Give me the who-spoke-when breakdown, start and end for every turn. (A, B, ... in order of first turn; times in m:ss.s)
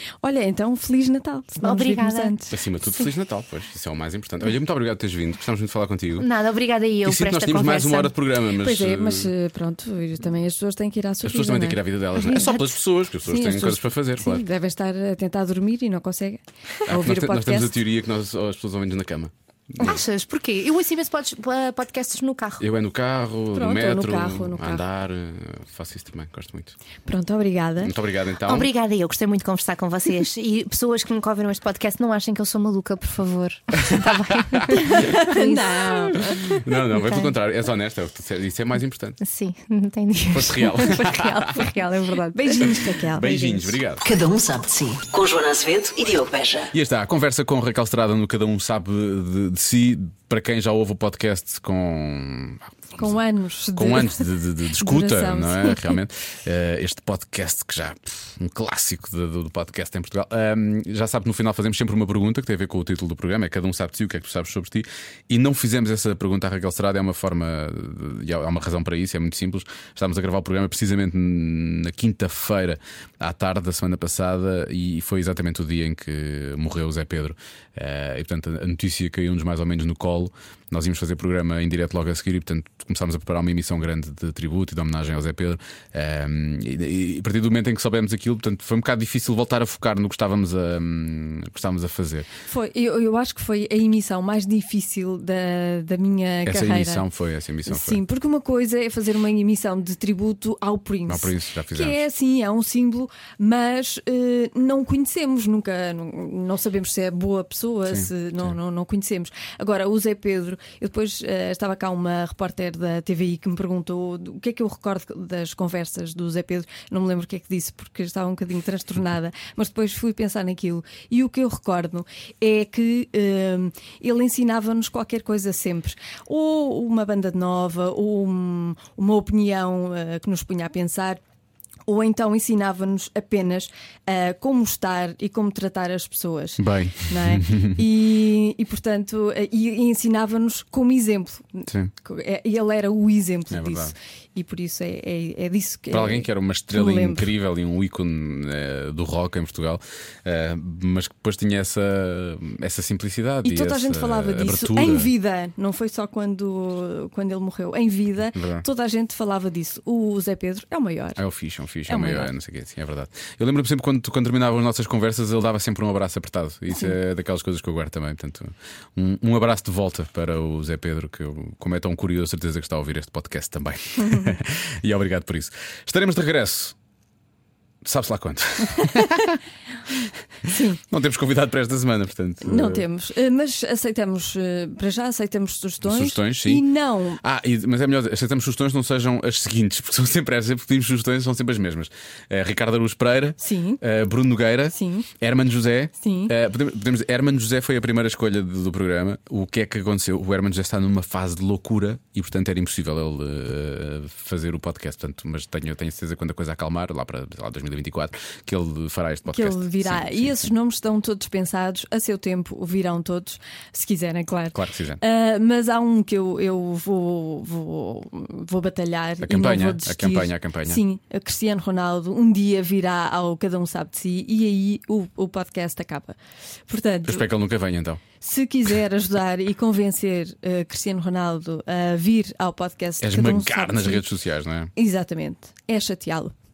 0:00.2-0:02.6 A
0:01.6-0:02.4 B
0:02.5-0:06.3 C
0:06.2-0:08.1 B
0:07.0-0:09.3 C
0:08.6-0:12.6 A
0:11.2-0:14.4 C
0:12.2-0:12.7 B
0:13.2-0:17.7 A
0:16.9-0:20.0 C
0:19.8-0:22.6 B
0:22.6-0:26.8 C
0:23.5-0:24.8 A
0:27.1-0:28.0 A
0:27.8-0:28.7 C
0:28.5-0:37.3 B
0:33.8-0:34.8 C
0:34.7-0:36.6 A
0:36.2-0:39.2 C
0:39.2-0:42.8 B
0:40.3-0:41.6 C
0:42.3-0:43.8 A
0:42.6-0:44.0 C
0:44.0-0:46.7 D
0:46.7-0:53.1 C
0:53.0-0:56.0 A
0:53.8-1:32.3 C
1:32.5-1:37.0 A
1:36.5-1:38.0 C
1:37.7-2:11.2 A
1:41.1-1:42.0 C
1:47.9-1:48.6 C
2:11.9-2:27.3 A
2:16.6-2:17.8 C
2:23.5-2:23.9 C
2:25.9-2:35.1 C
2:33.4-2:41.2 A
2:38.4-2:38.6 C
2:41.2-2:56.8 C
2:41.9-2:42.3 A
2:54.0-2:54.4 A
2:57.8-2:59.3 C
2:58.8-2:59.4 A
3:00.4-3:00.8 A
3:00.5-3:02.9 C
3:02.4-3:07.2 A
3:05.8-3:06.6 C
3:07.2-3:30.5 C
3:13.4-3:13.8 A
3:14.7-3:15.1 A
3:16.0-3:16.3 A
3:29.3-3:46.2 A
3:34.5-3:35.0 C
3:39.2-3:40.8 C
3:46.7-3:47.3 A
3:47.1-3:48.0 C
3:48.2-3:54.0 A
3:53.0-3:54.7 C
3:54.8-3:56.3 A